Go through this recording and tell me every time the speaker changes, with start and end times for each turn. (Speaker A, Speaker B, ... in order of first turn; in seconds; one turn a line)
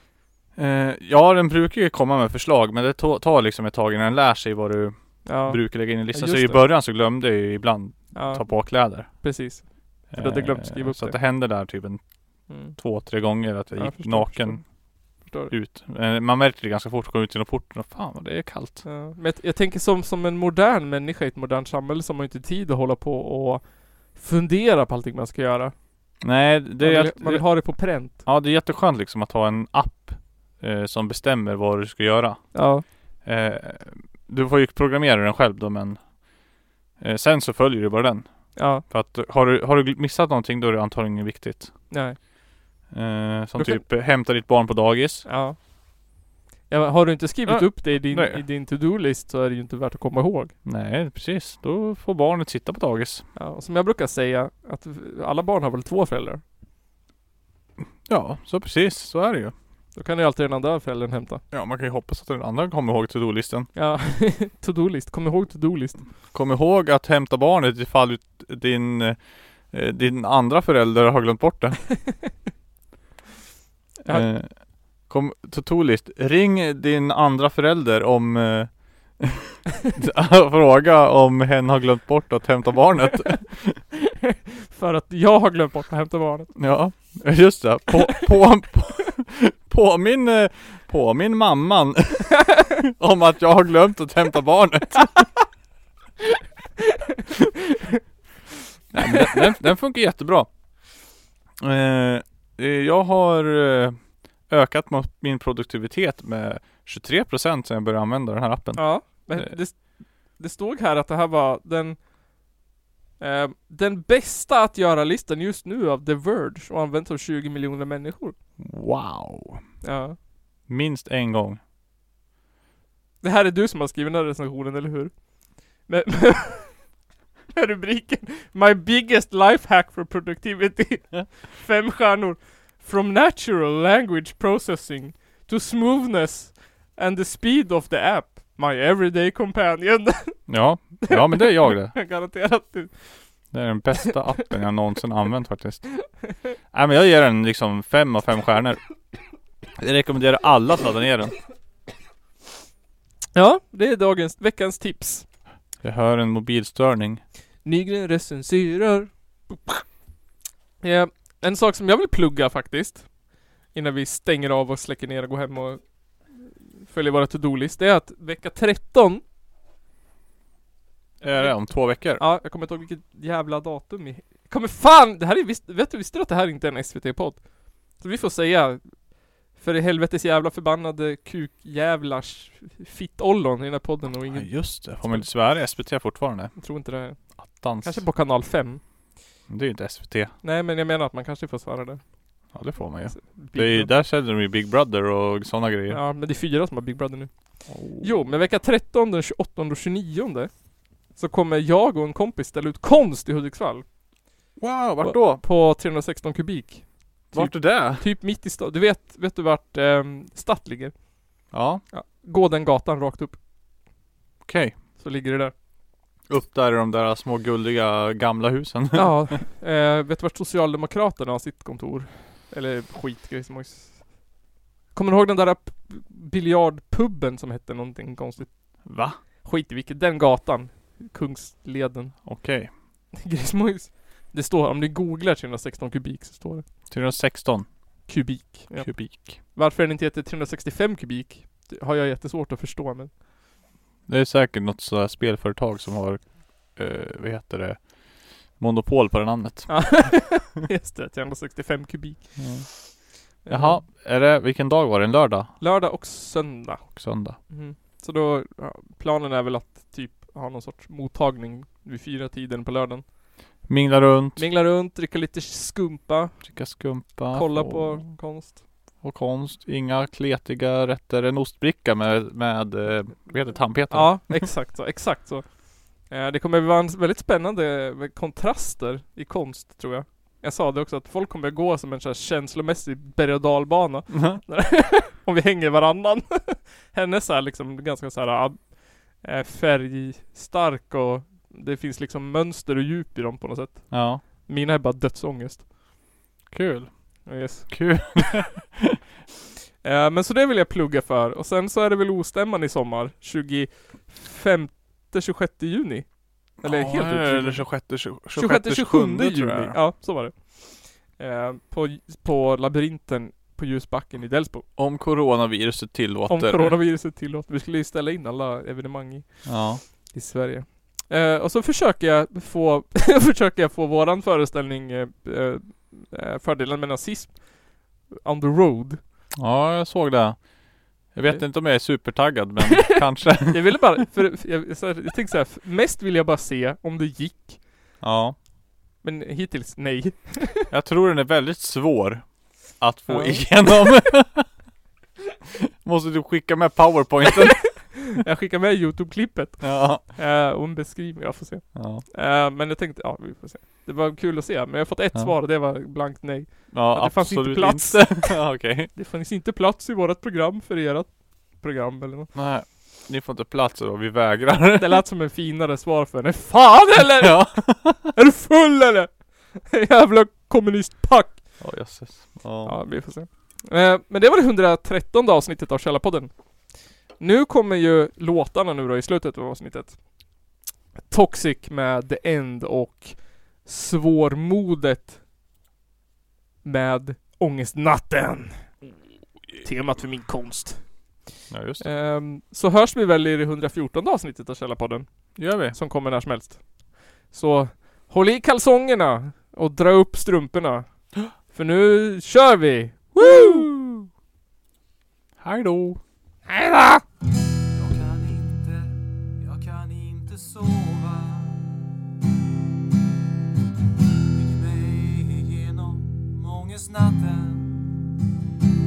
Speaker A: 0.6-9.1
Speaker B: 5.2-6.7
Speaker B: 8.1-11.2
Speaker A: 10.1-12.0
Speaker B: 12.5-12.8
Speaker A: 12.7-14.7
Speaker B: 13.8-14.6
Speaker B: 15.2-15.5
Speaker A: 15.5-18.8
Speaker B: 18.8-25.7
Speaker A: 26.2-32.6
Speaker B: 26.8-28.2
Speaker B: 32.5-32.8
Speaker A: 33.2-36.0
Speaker A: 37.0-41.7
Speaker B: 38.5-38.8
Speaker B: 41.9-42.2
Speaker A: 42.9-45.3
Speaker B: 43.6-43.8
Speaker B: 45.2-45.6
Speaker B: 46.7-50.5
Speaker A: 47.5-48.4
Speaker A: 50.6-53.2
Speaker B: 53.3-56.4
Speaker A: 57.8-59.5
Speaker B: 60.0-61.4
Speaker A: 61.5-63.7
Speaker B: 63.7-66.0
Speaker A: 66.3-71.9
Speaker A: 74.0-83.8
Speaker B: 84.7-86.5
Speaker A: 86.5-95.3
Speaker A: 98.9-100.5
Speaker A: 101.6-109.5
Speaker B: 108.8-112.0
Speaker B: 113.2-118.3
Speaker A: 118.6-119.6
Speaker B: 119.8-120.2
Speaker A: 120.7-121.6
Speaker B: 123.2-126.9
Speaker B: 127.5-140.5
Speaker A: 140.5-142.0
Speaker B: 141.1-143.2
Speaker A: 143.5-146.1
Speaker A: 146.7-148.8
Speaker A: 149.8-151.3
Speaker B: 153.3-155.3
Speaker A: 155.8-157.2
Speaker B: 157.6-159.8
Speaker B: 160.8-163.1
Speaker B: 163.7-169.2
Speaker A: 171.2-172.2
Speaker B: 171.3-185.3
Speaker A: 184.3-186.5
Speaker B: 186.6-188.8
Speaker A: 187.3-188.0
Speaker A: 189.5-190.3
Speaker B: 190.4-192.0
Speaker A: 192.5-196.0
Speaker B: 193.1-193.9
Speaker B: 195.9-197.3
Speaker A: 197.7-198.2
Speaker B: 198.0-200.5
Speaker B: 201.1-203.8
Speaker A: 204.6-205.4
Speaker B: 205.0-211.0
Speaker A: 207.3-208.0
Speaker A: 211.5-211.8
Speaker B: 211.9-213.3
Speaker A: 214.4-214.7
Speaker B: 215.0-215.5
Speaker A: 216.3-219.3
Speaker B: 218.9-224.1
Speaker B: 224.9-228.5
Speaker A: 228.8-229.2
Speaker B: 229.4-232.2
Speaker A: 232.2-232.7
Speaker B: 233.2-236.6
Speaker A: 236.9-237.7
Speaker B: 238.1-243.2
Speaker A: 238.8-239.4
Speaker A: 244.1-250.4
Speaker B: 249.7-252.9
Speaker A: 252.4-255.5
Speaker B: 253.4-253.8
Speaker B: 255.6-257.0
Speaker A: 256.9-257.4
Speaker B: 257.5-263.1
Speaker A: 263.7-264.4
Speaker B: 264.4-266.5
Speaker A: 266.4-268.0
Speaker B: 267.3-268.6
Speaker A: 269.0-274.5
Speaker B: 273.9-295.6
Speaker A: 284.1-284.4
Speaker A: 293.9-294.2
Speaker A: 296.5-298.9
Speaker B: 297.3-298.3
Speaker B: 299.8-314.6
Speaker A: 306.6-309.8
Speaker A: 314.8-316.8
Speaker B: 316.3-329.0
Speaker A: 319.4-319.8
Speaker A: 329.4-333.8
Speaker B: 332.7-337.6
Speaker A: 338.0-338.4
Speaker B: 339.0-340.7
Speaker A: 340.7-344.5
Speaker B: 343.1-344.0
Speaker A: 345.8-348.2
Speaker B: 348.1-362.3
Speaker A: 349.6-350.0
Speaker A: 351.7-352.0
Speaker A: 356.7-358.9
Speaker A: 362.3-365.0
Speaker B: 364.8-367.6
Speaker A: 367.2-368.1
Speaker B: 368.1-371.4
Speaker A: 371.6-372.8
Speaker B: 372.6-376.3
Speaker B: 377.2-380.0
Speaker B: 381.1-385.2
Speaker B: 386.6-388.7
Speaker B: 389.6-391.2
Speaker A: 391.5-391.9
Speaker B: 391.8-403.7
Speaker A: 395.4-395.8
Speaker A: 403.1-404.1
Speaker A: 405.4-406.0
Speaker B: 406.5-407.0
Speaker C: 407.7-411.7
Speaker C: 414.3-417.7